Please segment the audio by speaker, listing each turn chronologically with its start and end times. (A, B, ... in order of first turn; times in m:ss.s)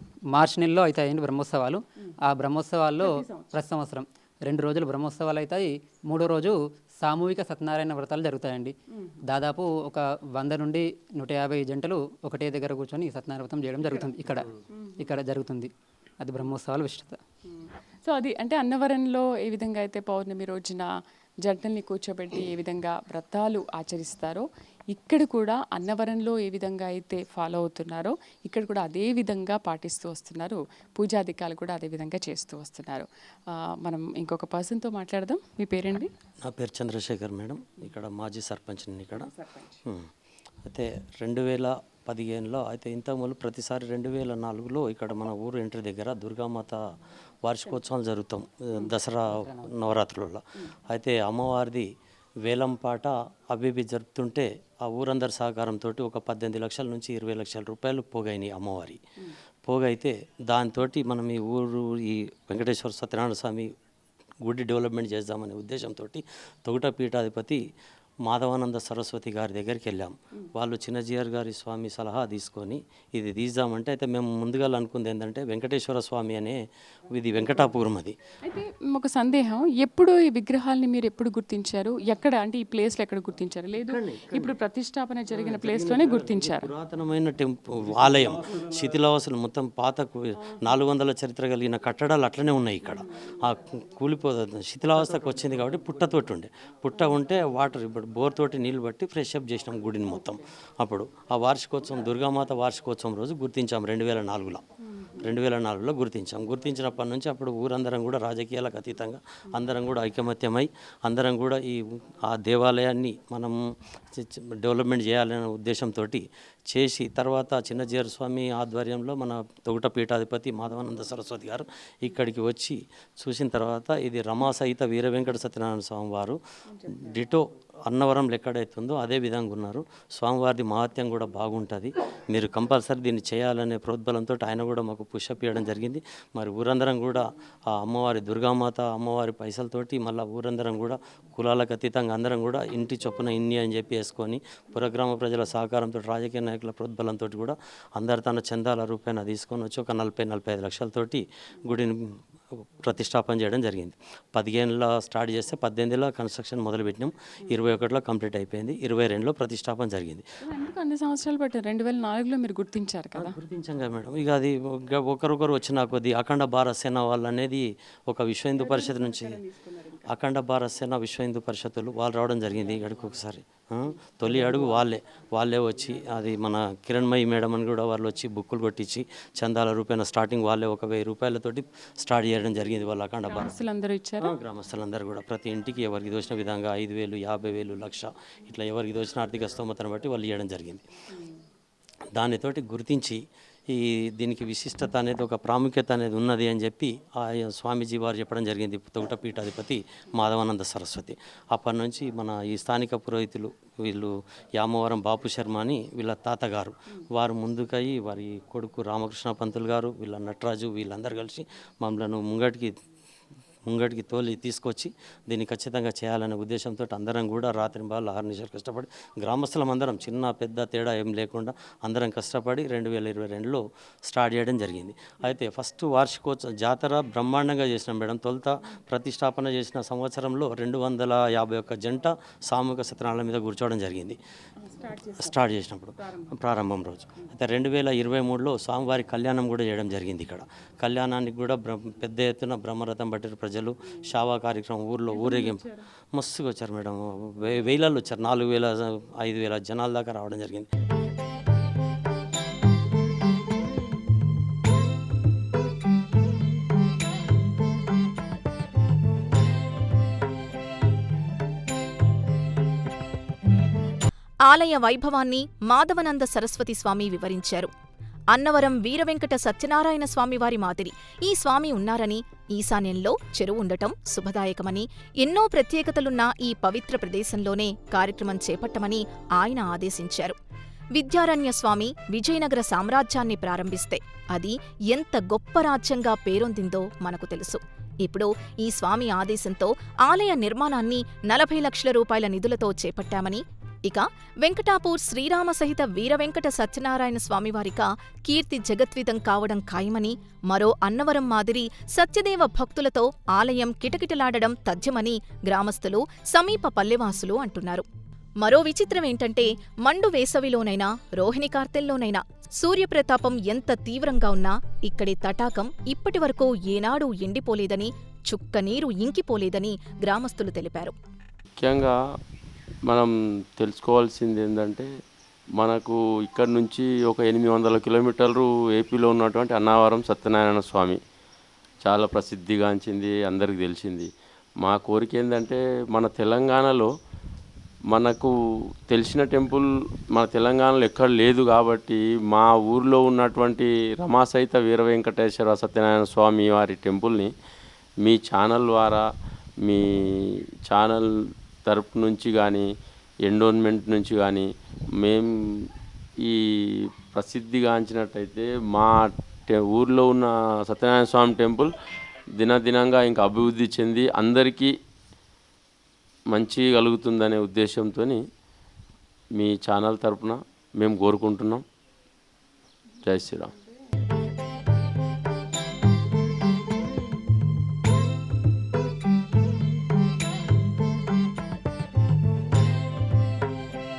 0:00.3-0:08.7 A
0:03.0-0:03.5 B
0:09.2-0:17.2 A
0:17.5-0:36.1 B
0:36.4-0:39.3 C
0:39.2-0:39.7 B
0:39.8-0:40.1 C
0:40.6-0:46.8 C
0:47.4-0:51.9 C
0:52.4-0:59.0 C
0:59.6-1:03.7 C
1:04.4-1:07.6 C
1:08.2-1:16.6 C
1:17.1-1:18.2 C
1:18.4-1:26.7 B
1:23.8-1:24.6 C
1:25.3-1:44.6 C
1:45.1-1:53.6 C
1:54.1-2:32.2 C
2:32.8-2:40.2 C
2:40.4-2:43.4 B
2:43.1-2:49.4 C
2:48.6-2:50.0 B
2:50.1-3:03.6 C
3:03.3-3:04.3 B
3:04.2-3:10.8 C
3:12.1-3:32.7 C
3:33.6-3:54.2 C
3:54.6-3:55.4 B
3:55.2-4:10.7 C
3:56.0-3:56.3 B
4:05.1-4:05.8 B
4:24.4-4:27.7 D
4:28.3-4:40.4 D
4:40.9-5:07.8 D
5:08.4-5:20.9 D
5:21.6-5:22.0 E
5:22.8-5:24.9 E
5:25.6-5:31.0 E
5:31.8-5:34.1 E
5:34.6-5:36.9 E
5:37.9-5:38.3 E
5:38.9-5:47.3 E
5:48.0-5:49.0 E
5:49.6-5:52.7 E
5:53.2-5:55.7 E
5:56.2-6:01.7 E
6:02.4-6:04.7 E
6:06.3-6:08.2 E
6:09.4-6:11.6 E
6:13.0-6:13.5 E